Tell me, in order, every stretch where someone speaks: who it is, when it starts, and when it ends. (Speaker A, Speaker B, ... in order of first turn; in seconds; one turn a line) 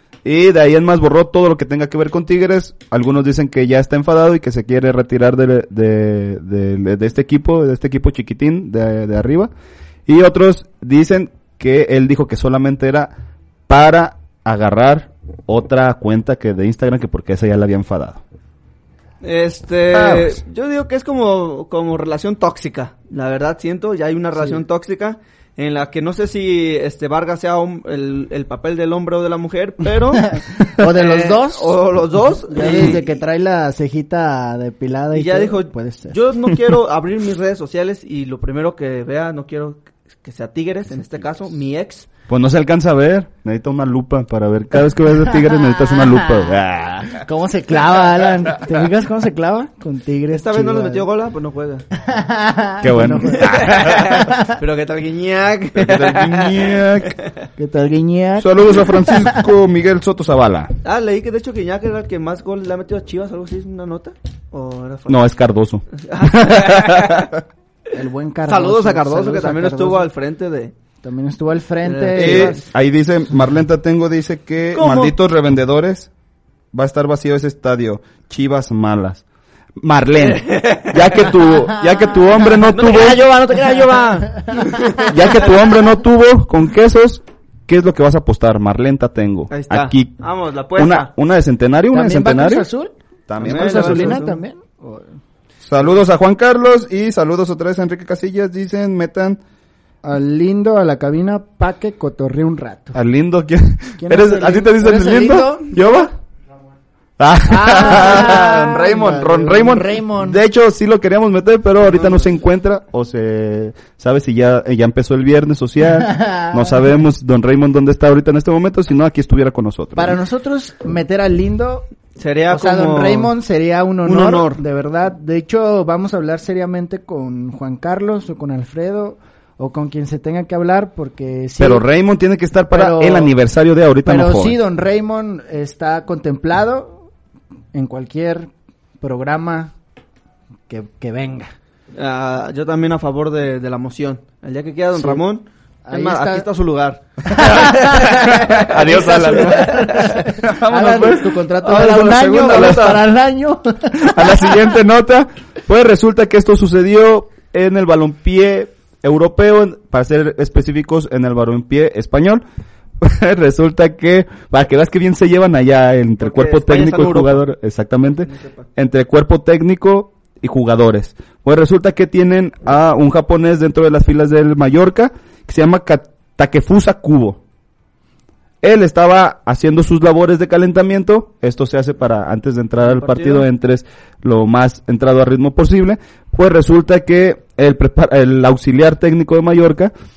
Speaker A: 0.2-9.5
Speaker A: 10.1-13.1
Speaker A: 13.7-18.2
Speaker B: 19.2-33.0
Speaker A: 19.9-20.4
Speaker C: 30.6-31.8
Speaker C: 32.5-36.1
Speaker B: 35.1-42.1
Speaker A: 42.3-47.2
Speaker C: 46.0-46.3
Speaker C: 47.2-51.0
Speaker B: 50.3-51.8
Speaker C: 52.0-53.5
Speaker A: 52.8-54.2
Speaker B: 53.4-57.2
Speaker C: 54.2-54.5
Speaker A: 55.8-57.1
Speaker C: 57.6-59.4
Speaker A: 58.4-60.7
Speaker B: 60.8-65.3
Speaker A: 65.1-67.3
Speaker B: 65.9-67.3
Speaker C: 67.9-70.1
Speaker B: 68.5-70.7
Speaker C: 71.0-72.6
Speaker B: 71.8-72.6
Speaker A: 72.2-76.1
Speaker B: 74.7-75.1
Speaker A: 76.7-79.2
Speaker A: 79.8-83.2
Speaker B: 80.2-81.2
Speaker B: 82.7-85.1
Speaker A: 85.0-90.2
Speaker B: 89.5-91.1
Speaker A: 90.7-92.7
Speaker C: 91.9-95.0
Speaker A: 93.3-94.2
Speaker B: 93.4-94.4
Speaker A: 95.6-99.4
Speaker C: 100.0-103.0
Speaker A: 102.9-106.1
Speaker C: 104.0-106.1
Speaker A: 107.2-120.2
Speaker C: 107.5-110.4
Speaker B: 111.8-112.2
Speaker C: 116.0-116.5
Speaker C: 120.0-121.9
Speaker B: 122.2-123.3
Speaker C: 122.5-131.8
Speaker B: 124.0-124.6
Speaker A: 131.6-134.6
Speaker C: 132.7-133.3
Speaker C: 134.0-137.0
Speaker C: 137.7-138.5
Speaker C: 139.0-139.7
Speaker C: 140.7-141.5
Speaker B: 141.9-150.2
Speaker C: 145.9-146.5
Speaker C: 147.3-148.4
Speaker A: 147.9-153.0
Speaker C: 148.9-154.6
Speaker B: 151.7-153.0
Speaker A: 154.0-162.4
Speaker A: 163.0-177.4
Speaker B: 166.2-167.4
Speaker B: 168.2-168.7
Speaker A: 178.6-189.9
Speaker B: 182.8-183.4